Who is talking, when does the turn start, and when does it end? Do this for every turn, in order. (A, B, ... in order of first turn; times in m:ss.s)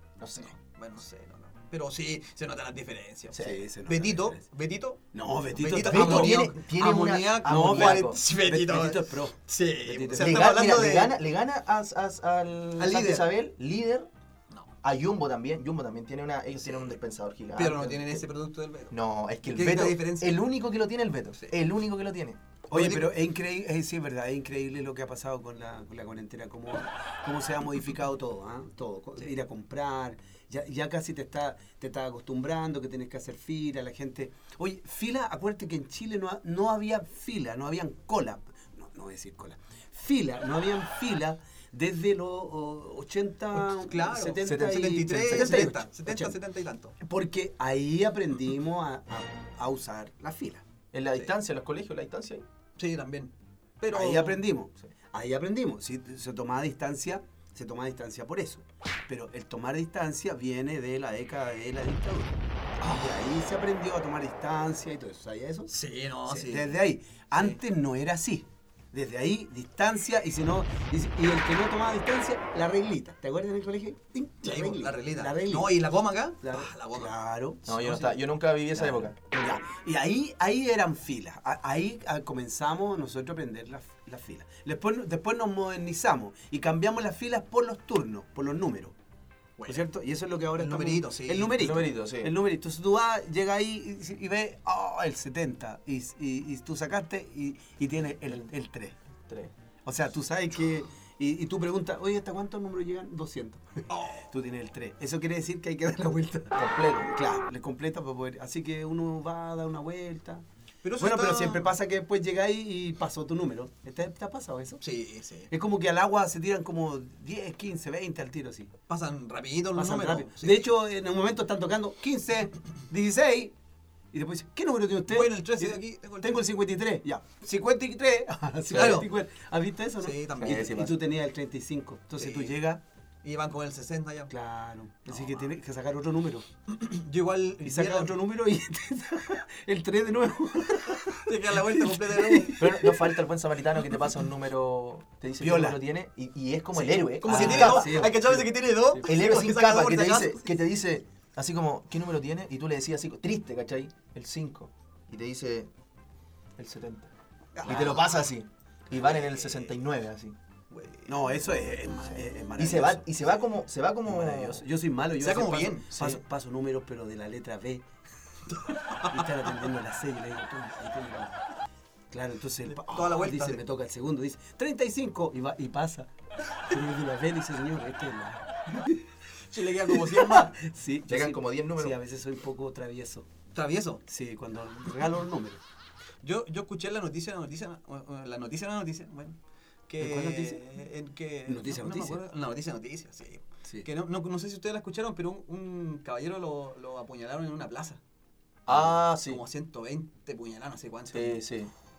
0:00.2-0:00.5 A
0:00.4-0:11.2 B
0:03.3-0:03.6 A
0:03.4-0:04.4 C
0:05.1-0:06.4 C
0:05.9-0:08.2 A
0:07.4-0:10.6 C
0:10.1-0:14.1 A
0:12.8-0:13.3 B
0:14.8-0:18.3 A
0:16.6-0:17.0 B
0:17.6-0:20.5 B
0:18.9-0:22.4 A
0:22.7-0:46.4 C
0:22.7-0:23.2 B
0:43.5-0:47.0 B
0:44.4-0:45.8 A
0:47.0-0:50.6 C
0:50.9-0:52.4 A
0:52.8-0:54.4 B
0:53.9-1:05.7 C
1:05.7-1:06.8 B
1:06.3-1:15.8 C
1:07.3-1:07.6 B
1:14.4-1:18.2 B
1:16.4-1:17.6 C
1:17.6-1:19.2 A
1:18.7-1:29.0 C
1:29.6-1:29.9 B
1:29.7-1:39.0 C
1:30.6-1:31.6 B
1:31.5-1:32.4 A
1:39.3-1:39.5 A
1:39.8-1:50.4 C
1:43.9-1:44.3 B
1:46.6-1:47.1 A
1:50.8-1:51.7 B
1:51.0-1:54.8 C
1:54.8-1:55.5 B
1:55.5-1:58.7 C
1:58.9-2:00.7 B
1:59.8-2:03.6 C
2:04.1-2:12.8 C
2:05.1-2:06.5 B
2:08.7-2:09.1 B
2:10.0-2:10.9 B
2:10.4-2:11.0 A
2:12.2-2:12.6 B
2:13.2-2:14.3 B
2:14.3-2:16.5 C
2:15.1-2:15.5 B
2:16.7-2:18.2 B
2:17.6-2:23.0 C
2:21.1-2:22.7 B
2:22.6-2:28.2 A
2:25.4-2:25.8 C
2:26.8-2:29.3 C
2:27.2-2:30.5 B
2:29.0-2:35.7 A
2:36.6-2:37.1 A
2:37.6-2:38.3 B
2:37.6-2:40.4 A
2:38.9-2:39.7 B
2:40.7-2:41.3 B
2:41.1-2:43.2 C
2:42.6-2:44.7 A
2:44.1-2:47.9 C
2:45.2-2:46.0 B
2:48.5-2:49.2 B
2:49.0-2:51.4 C
2:52.1-2:56.1 C
2:52.7-2:53.6 B
2:56.7-2:59.0 C
2:59.5-3:00.5 B
2:59.9-3:03.3 C
3:01.1-3:02.0 A
3:03.5-3:04.0 B
3:04.1-3:05.6 C
3:06.2-3:09.4 B
3:09.9-3:18.0 B
3:10.0-3:10.6 C
3:11.5-3:12.2 C
3:18.7-3:19.4 A
3:18.7-3:21.4 B
3:21.1-3:21.7 A